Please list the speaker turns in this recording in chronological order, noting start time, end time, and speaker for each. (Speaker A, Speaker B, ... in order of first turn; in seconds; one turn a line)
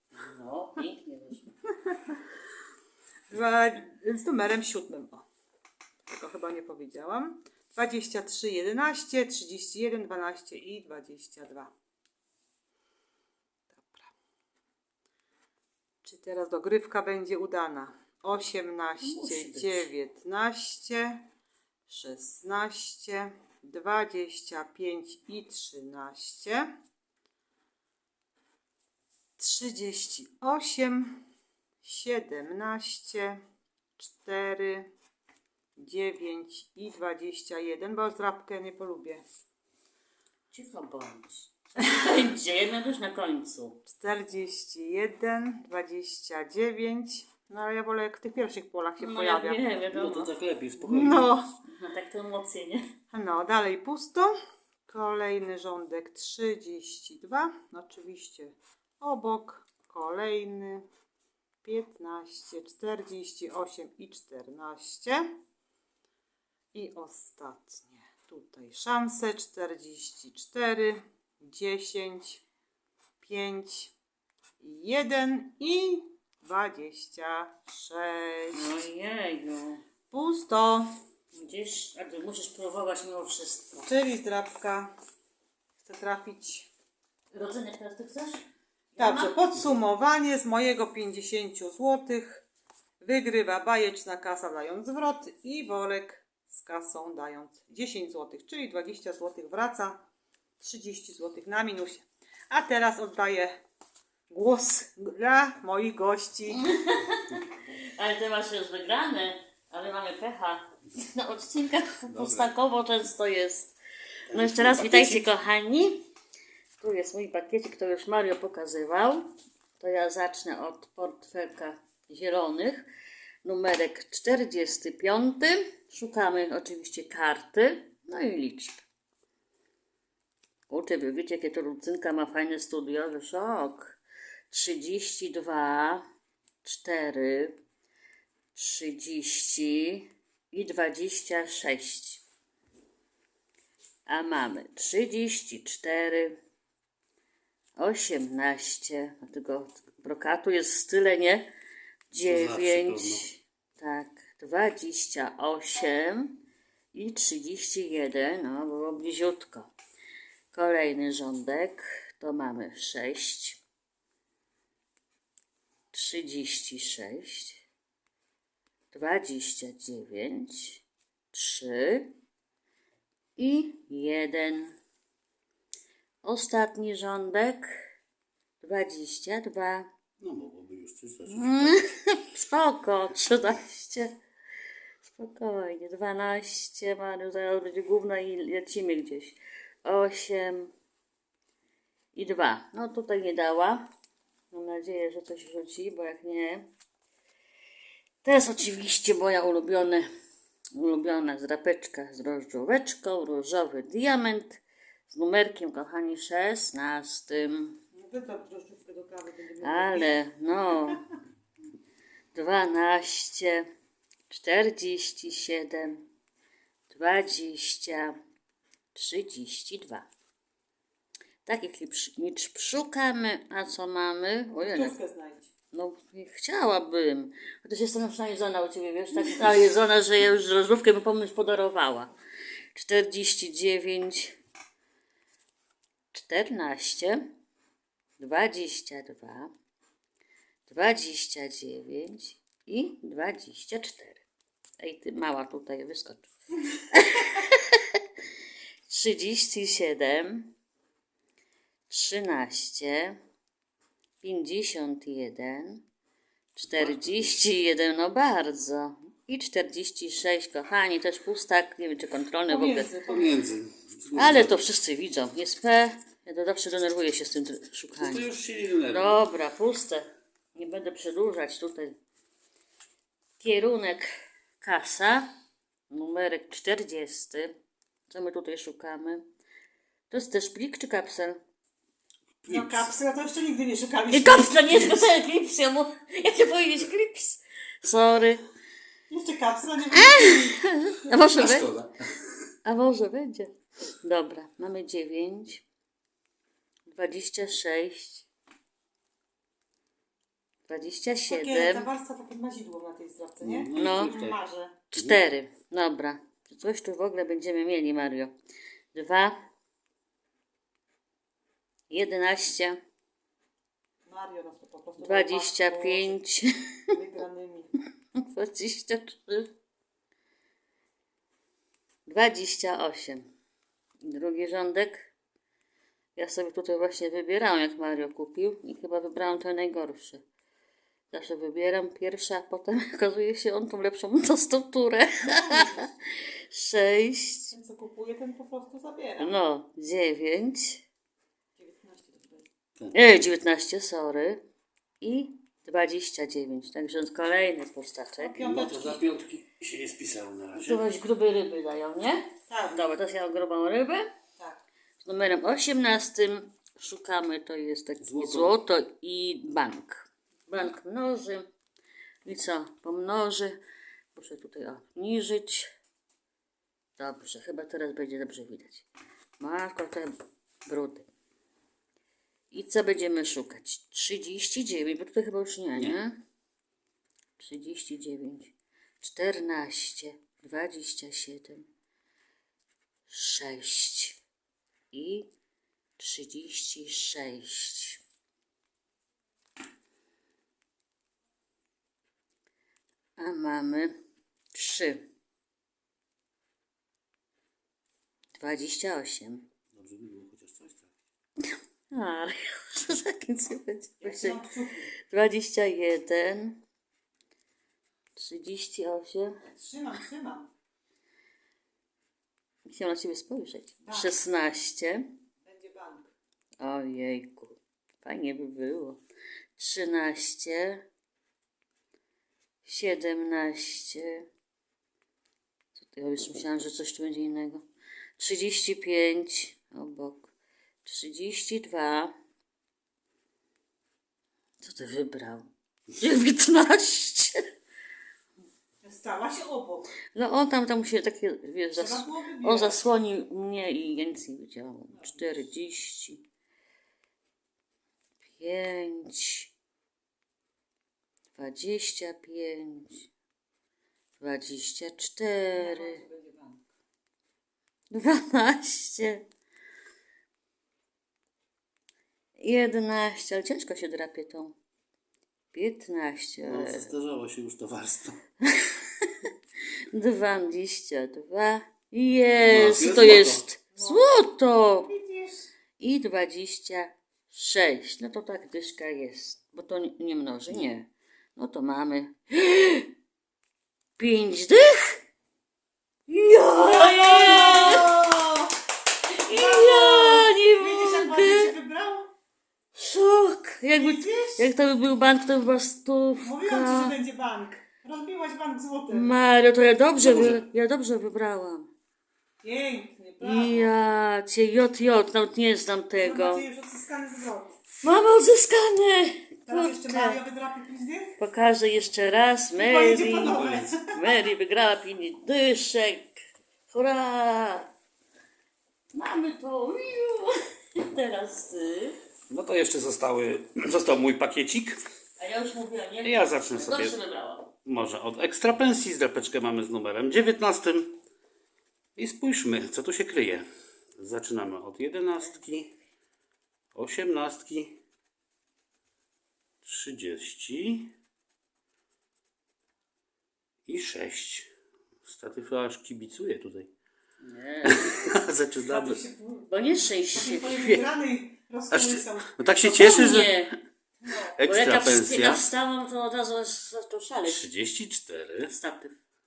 Speaker A: 0.1-1.5
Speaker B: 3.3-5.2
Speaker B: 6.1-11.7
Speaker B: 13.7-14.1
Speaker B: 16.0-21.2
Speaker A: 19.0-19.9
Speaker B: 21.9-26.6
Speaker B: 29.4-31.2
Speaker B: 31.8-33.4
Speaker B: 34.0-34.9
Speaker B: 35.8-39.2
Speaker A: 40.5-43.8
Speaker B: 43.9-49.6
Speaker A: 49.0-50.3
Speaker C: 49.9-51.3
Speaker B: 50.8-51.5
Speaker A: 51.6-52.8
Speaker B: 53.1-54.3
Speaker B: 54.9-60.8
Speaker B: 61.6-65.2
Speaker B: 66.7-72.4
Speaker B: 73.2-73.9
Speaker B: 74.6-78.8
Speaker A: 78.5-79.8
Speaker B: 80.1-80.9
Speaker A: 81.3-83.9
Speaker B: 83.8-84.9
Speaker B: 85.8-86.7
Speaker A: 87.3-88.4
Speaker A: 88.9-89.6
Speaker B: 89.0-92.4
Speaker B: 93.0-100.0
Speaker B: 100.6-103.6
Speaker B: 104.3-106.6
Speaker A: 106.5-107.4
Speaker A: 107.9-113.7
Speaker C: 112.1-112.5
Speaker C: 114.3-115.2
Speaker A: 114.3-116.1
Speaker A: 116.8-122.9
Speaker A: 123.4-128.8
Speaker A: 130.7-134.0
Speaker A: 134.5-136.0
Speaker A: 136.6-137.6
Speaker A: 138.5-142.2
Speaker A: 144.1-146.3
Speaker A: 147.8-151.5
Speaker A: 152.1-156.4
Speaker C: 152.2-153.2
Speaker A: 156.9-159.7
Speaker A: 160.5-163.6
Speaker A: 165.9-167.6
Speaker A: 168.9-172.1
Speaker A: 173.4-174.8
Speaker A: 176.2-177.9
Speaker A: 178.6-179.9
Speaker C: 180.2-181.9
Speaker A: 181.3-184.1
Speaker A: 185.0-190.7
Speaker A: 192.1-193.8
Speaker A: 194.5-196.7
Speaker A: 198.2-200.1
Speaker A: 200.7-207.8
Speaker B: 207.9-210.1
Speaker A: 209.6-211.1
Speaker A: 212.3-213.7
Speaker A: 214.3-216.0
Speaker A: 216.9-218.2
Speaker A: 218.9-220.1
Speaker A: 221.4-224.9
Speaker B: 224.6-225.5
Speaker A: 225.7-232.1
Speaker A: 232.7-234.4
Speaker A: 236.1-237.2
Speaker A: 238.2-239.5
Speaker A: 240.7-244.2
Speaker A: 244.8-248.0
Speaker A: 248.9-250.5
Speaker A: 251.9-253.2
Speaker A: 254.2-255.8
Speaker A: 256.5-262.9
Speaker C: 256.7-257.3
Speaker B: 262.5-263.4
Speaker C: 263.1-264.5
Speaker A: 264.1-268.3
Speaker C: 267.9-269.2
Speaker A: 268.9-271.9
Speaker A: 273.4-275.3
Speaker A: 275.9-277.5
Speaker A: 278.1-279.2
Speaker A: 280.1-281.4
Speaker C: 282.4-282.9
Speaker B: 282.4-284.9
Speaker A: 284.1-288.4
Speaker B: 289.1-290.5
Speaker A: 289.9-291.7
Speaker C: 291.3-291.9
Speaker A: 292.6-293.5
Speaker A: 294.0-295.6
Speaker A: 296.9-298.3
Speaker A: 300.7-301.9
Speaker B: 301.3-304.8
Speaker C: 303.4-304.4
Speaker A: 303.7-304.1
Speaker A: 304.9-308.3
Speaker A: 308.9-309.4
Speaker A: 311.9-312.8
Speaker B: 314.1-316.2
Speaker A: 315.0-316.4
Speaker B: 316.9-317.7
Speaker A: 318.2-319.5
Speaker A: 322.1-323.3
Speaker A: 324.0-325.1
Speaker A: 326.1-330.2
Speaker A: 331.1-337.5
Speaker B: 335.3-335.9
Speaker B: 337.5-339.3
Speaker A: 339.2-340.8
Speaker B: 341.6-342.4
Speaker A: 342.9-344.4
Speaker A: 345.0-348.4
Speaker B: 348.2-349.0
Speaker C: 348.4-350.8
Speaker A: 350.6-354.1
Speaker B: 352.5-352.9
Speaker A: 355.0-361.5
Speaker C: 358.0-358.5
Speaker A: 362.2-363.6
Speaker A: 364.1-365.7
Speaker A: 367.0-368.9
Speaker A: 369.4-370.1
Speaker A: 370.6-371.1
Speaker A: 372.5-376.2
Speaker A: 377.4-381.6
Speaker A: 383.1-384.2
Speaker A: 384.9-385.3
Speaker A: 386.0-388.0
Speaker A: 393.2-393.9
Speaker A: 394.5-395.0
Speaker A: 398.4-399.5
Speaker C: 399.7-400.9
Speaker A: 401.9-404.4
Speaker B: 404.0-404.9
Speaker A: 405.1-406.6
Speaker A: 408.1-409.4
Speaker B: 409.5-410.5
Speaker A: 412.6-415.0
Speaker B: 413.8-414.1
Speaker B: 415.4-416.1
Speaker A: 416.6-419.0
Speaker A: 419.6-420.8
Speaker A: 422.6-424.2
Speaker A: 425.8-427.6
Speaker A: 428.2-430.3
Speaker A: 430.8-432.1
Speaker A: 434.6-437.4
Speaker B: 438.8-439.9
Speaker A: 440.1-446.2
Speaker B: 441.7-442.8
Speaker B: 444.9-445.3
Speaker A: 448.4-449.5
Speaker A: 451.3-453.1
Speaker A: 454.2-456.0
Speaker B: 455.5-456.6
Speaker A: 457.9-459.2
Speaker A: 462.4-464.5
Speaker A: 465.5-466.9
Speaker C: 466.4-468.2
Speaker A: 468.5-469.1
Speaker A: 469.9-474.9
Speaker C: 472.4-473.4
Speaker B: 473.8-475.5
Speaker A: 475.8-482.9
Speaker A: 484.0-485.0
Speaker A: 486.1-488.0
Speaker B: 486.6-488.5
Speaker A: 489.1-491.5
Speaker B: 489.3-492.1
Speaker A: 492.7-496.9
Speaker B: 493.7-494.5
Speaker B: 496.2-499.1
Speaker A: 498.9-501.7
Speaker C: 500.0-500.4
Speaker B: 502.4-503.7
Speaker A: 503.2-506.4
Speaker B: 506.0-507.6
Speaker A: 507.8-510.2
Speaker B: 509.5-511.2
Speaker A: 511.2-517.7
Speaker B: 512.5-514.0
Speaker C: 513.2-513.7
Speaker A: 518.9-522.0
Speaker C: 522.3-524.8
Speaker A: 525.2-527.5
Speaker C: 526.0-527.0
Speaker C: 527.6-531.0
Speaker C: 532.0-533.5
Speaker C: 534.0-535.7
Speaker C: 536.7-537.8
Speaker C: 539.6-540.9
Speaker C: 543.7-544.5
Speaker C: 545.0-546.7
Speaker A: 547.2-548.2
Speaker C: 547.7-549.0
Speaker B: 548.6-549.5
Speaker A: 549.5-550.6
Speaker B: 550.1-553.1
Speaker C: 551.7-553.4
Speaker A: 552.7-553.5
Speaker B: 554.0-554.3
Speaker C: 554.4-555.4
Speaker A: 554.4-557.5
Speaker C: 557.2-558.5
Speaker A: 558.5-559.0